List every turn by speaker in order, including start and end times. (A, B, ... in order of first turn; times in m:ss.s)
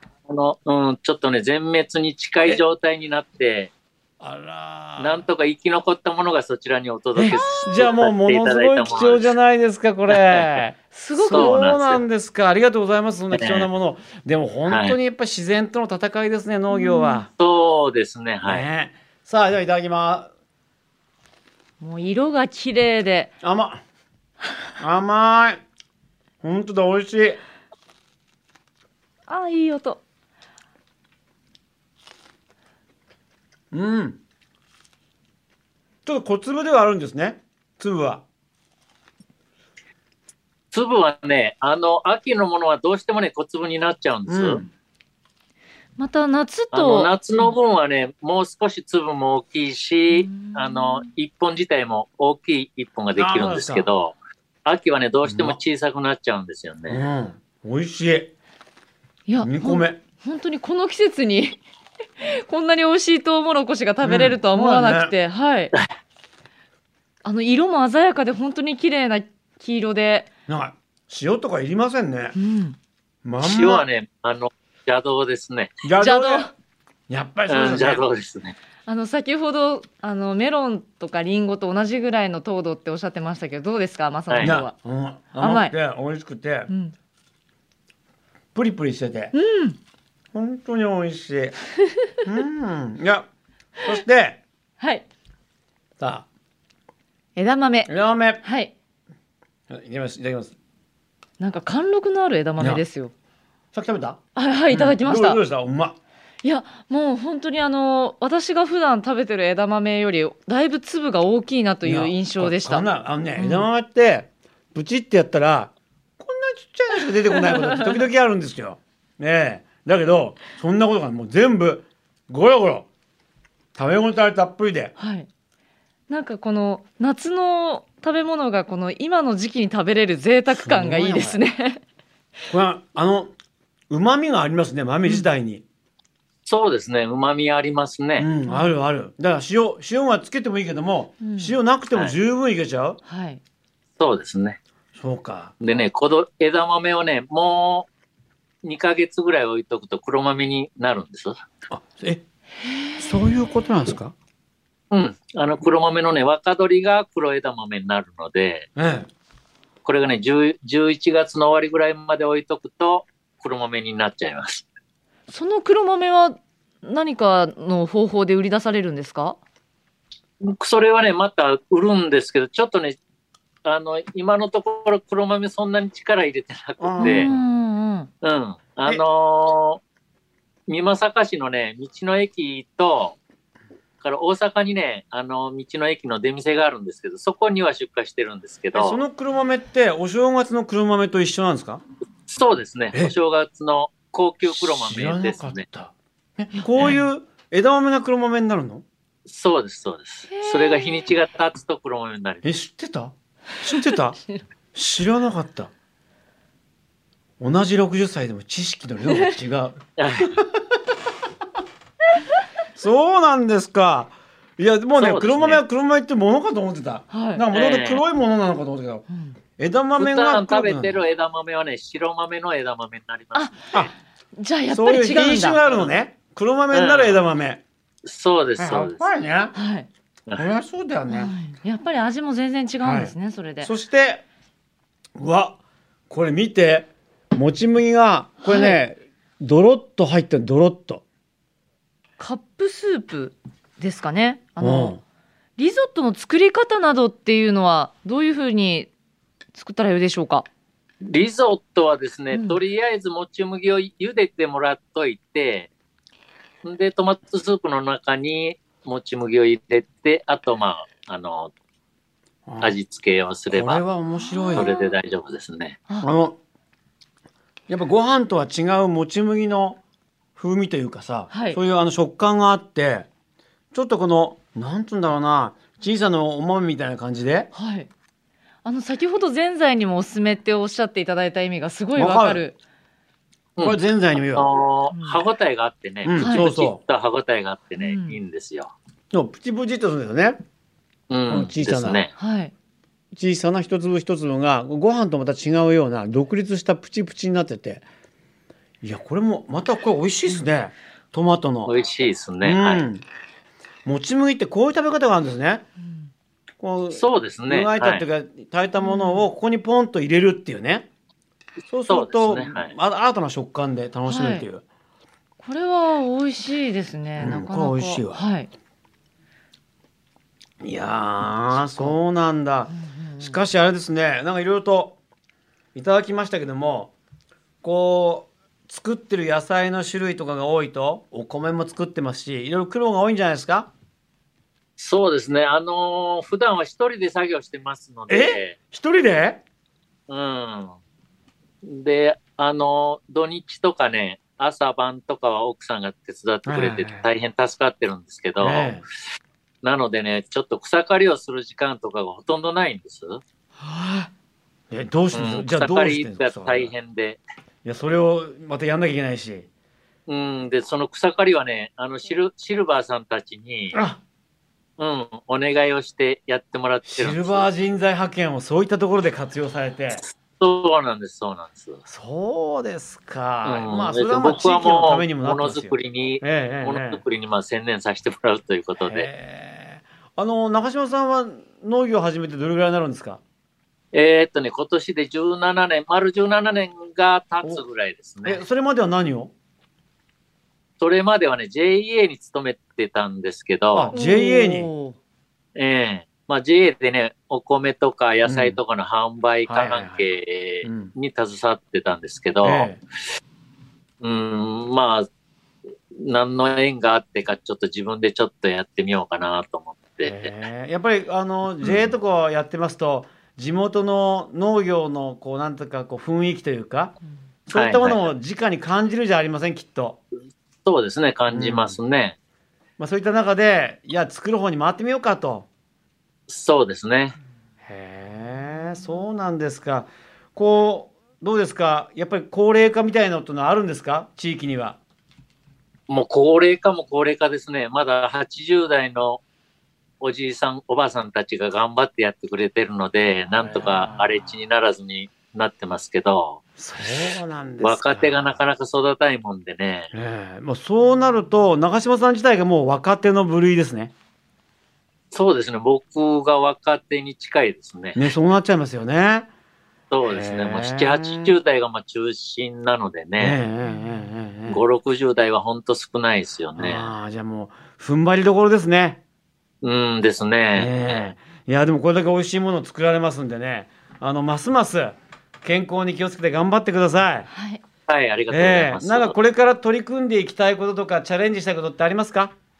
0:00.3-0:03.7 A
0:04.2-0:05.2 B
0:05.0-0:09.4 A
0:07.2-0:17.3 B
0:07.3-0:07.9 C
0:10.1-0:10.6 A
0:10.9-0:11.6 C
0:11.3-0:12.0 A
0:13.3-0:13.7 A
0:14.7-0:15.0 A
0:16.7-0:17.2 C
0:17.4-0:18.7 A
0:18.4-0:20.3 B
0:21.8-0:23.4 C
0:23.4-0:23.8 B
0:24.8-0:25.6 B
0:26.4-0:27.4 B
0:29.3-0:30.0 C
0:33.7-0:34.2 B
0:36.0-0:38.2 B
0:40.7-0:44.6 A
0:44.3-0:44.7 B
0:46.0-0:47.5 C
0:46.7-0:57.0 A
0:50.1-0:51.1 C
0:53.2-0:53.9 B
0:55.2-0:55.6 B
0:56.9-0:58.3 B
0:59.3-1:01.6 C
0:59.4-1:00.0 B
1:02.2-1:05.7 C
1:04.0-1:05.1 B
1:07.2-1:10.3 C
1:10.5-1:12.4 B
1:12.3-1:12.8 C
1:13.2-1:13.8 B
1:13.4-1:15.8 A
1:15.8-1:16.5 B
1:16.0-1:16.5 C
1:17.1-1:18.0 B
1:17.5-1:18.6 A
1:18.8-1:24.7 C
1:24.3-1:24.6 A
1:24.4-1:26.7 B
1:25.3-1:25.8 C
1:26.7-1:26.9 C
1:28.5-1:29.3 B
1:29.3-1:29.8 C
1:30.3-1:31.5 B
1:31.9-1:32.2 C
1:32.2-1:33.3 B
1:33.8-1:34.4 B
1:34.8-1:35.0 C
1:36.0-1:36.2 B
1:37.4-1:38.7 C
1:37.9-1:38.4 B
1:39.7-1:40.5 B
1:41.4-1:43.1 C
1:42.6-1:42.8 B
1:43.7-1:44.2 B
1:44.4-1:45.4 C
1:44.7-1:46.0 B
1:46.4-1:53.7 C
1:51.8-2:02.9 B
1:57.4-1:58.0 C
2:03.8-2:04.9 B
2:05.0-2:05.3 C
2:06.1-2:11.8 C
2:10.5-2:11.4 B
2:12.5-2:13.3 B
2:13.9-2:15.6 B
2:16.4-2:18.3 A
2:18.2-2:23.0 B
2:18.4-2:18.7 C
2:21.2-2:21.6 C
2:23.0-2:23.4 C
2:24.0-2:24.6 A
2:25.0-2:25.5 B
2:25.6-2:27.9 A
2:28.6-2:31.4 A
2:31.7-2:32.2 B
2:32.6-2:33.1 C
2:33.0-2:34.1 B
2:34.9-2:38.7 A
2:38.8-2:39.1 B
2:39.8-2:44.6 A
2:45.3-2:49.4 C
2:50.4-2:53.0 A
2:53.6-2:57.3 A
2:56.8-2:57.4 B
2:57.0-2:58.1 C
2:58.2-2:59.8 A
3:00.7-3:03.2 A
3:04.0-3:09.0 A
3:08.7-3:11.8 B
3:12.3-3:15.6 A
3:14.4-3:18.8 B
3:16.5-3:17.0 C
3:19.3-3:22.5 A
3:20.3-3:21.1 C
3:22.4-3:24.2 B
3:23.7-3:24.4 C
3:24.7-3:25.7 B
3:27.4-3:30.5 B
3:29.1-3:29.4 C
3:30.0-3:30.3 A
3:32.8-3:39.0 B
3:35.0-3:35.6 A
3:37.1-3:37.4 C
3:37.5-3:38.0 A
3:39.1-3:39.4 C
3:39.6-3:41.0 B
3:40.0-3:43.5 A
3:43.3-3:45.6 C
3:44.7-3:47.6 B
3:45.7-3:45.9 A
3:46.7-3:47.2 A
3:48.0-3:49.1 A
3:48.6-3:49.5 B
3:49.5-3:49.9 C
3:50.4-3:51.4 B
3:51.1-3:53.7 C
3:52.8-3:54.2 B
3:55.2-3:55.6 B
3:56.1-4:01.0 B
3:58.4-3:58.8 C
4:02.2-4:05.0 C
4:04.6-4:05.0 B
4:05.6-4:08.9 C
4:09.5-4:10.5 C
4:11.0-4:15.7 A
4:12.3-4:12.6 C
4:16.6-4:21.5 A
4:22.5-4:22.8 B
4:22.6-4:23.8 A
4:23.5-4:24.7 B
4:24.2-4:24.9 C
4:24.5-4:25.8 A
4:26.0-4:26.4 B
4:27.7-4:29.8 B
4:30.4-4:33.1 B
4:31.3-4:31.6 C
4:33.7-4:37.5 B
4:37.5-4:37.9 C
4:38.6-4:42.6 C
4:41.9-4:42.4 B
4:43.6-4:48.7 A
4:43.6-4:44.5 B
4:44.9-4:45.3 C
4:46.0-4:46.8 B
4:46.2-4:46.4 C
4:47.8-4:48.2 C
4:49.1-4:50.4 B
4:51.1-4:52.1 A
4:51.3-4:52.0 B
4:52.1-4:52.5 C
4:53.1-4:57.8 B
4:58.8-5:01.7 B
5:01.6-5:02.8 A
5:02.4-5:03.0 B
5:03.8-5:05.6 B
5:06.6-5:10.9 B
5:06.9-5:08.1 A
5:08.8-5:09.3 C
5:11.7-5:14.6 B
5:11.9-5:12.7 A
5:14.0-5:14.5 C
5:15.4-5:18.5 C
5:17.2-5:18.3 B
5:20.6-5:25.0 B
5:21.5-5:22.0 C
5:22.7-5:23.4 C
5:25.7-5:26.9 B
5:27.6-5:33.7 B
5:34.8-5:38.6 A
5:38.1-5:39.4 B
5:40.1-5:40.8 A
5:41.6-5:48.8 A
5:46.4-5:47.1 B
5:48.4-5:48.8 B
5:49.6-5:53.2 A
5:53.6-5:54.1 C
5:54.7-5:56.7 B
5:55.1-5:57.2 A
5:57.6-5:59.5 B
6:00.1-6:03.8 A
6:03.7-6:04.0 B
6:04.8-6:07.5 A
6:06.8-6:10.0 B
6:09.9-6:11.8 A
6:11.8-6:17.0 B
6:13.4-6:19.1 A
6:18.8-6:23.2 B
6:23.9-6:28.4 A
6:28.2-6:29.3 B
6:30.8-6:33.9 A
6:33.7-6:34.7 B
6:33.9-6:35.0 C
6:35.5-6:42.7 A
6:38.2-6:38.6 B
6:39.5-6:40.0 B
6:40.6-6:40.9 B
6:42.4-6:42.8 B
6:44.0-6:45.0 A
6:46.0-6:50.3 A
6:50.0-7:00.0 B
6:51.6-6:51.9 A
6:57.5-6:58.1 A
7:00.6-7:02.2 A
7:01.3-7:01.8 B
7:02.8-7:05.5 B
7:06.3-7:07.2 A
7:07.6-7:14.8 B
7:15.9-7:19.2 A
7:20.0-7:26.4 A
7:23.4-7:24.0 B
7:26.6-7:28.4 B
7:27.6-7:29.9 A
7:29.9-7:33.9 B
7:35.1-7:38.0 A
7:37.9-7:39.3 B
7:39.9-7:43.4 A
7:40.0-7:41.4 B
7:43.2-7:44.6 B
7:44.5-7:46.9 A
7:46.6-7:49.0 B
7:49.6-7:51.1 A
7:50.5-7:57.3 B
7:57.3-7:57.6 C
7:57.9-7:59.1 A
7:58.3-8:02.3 B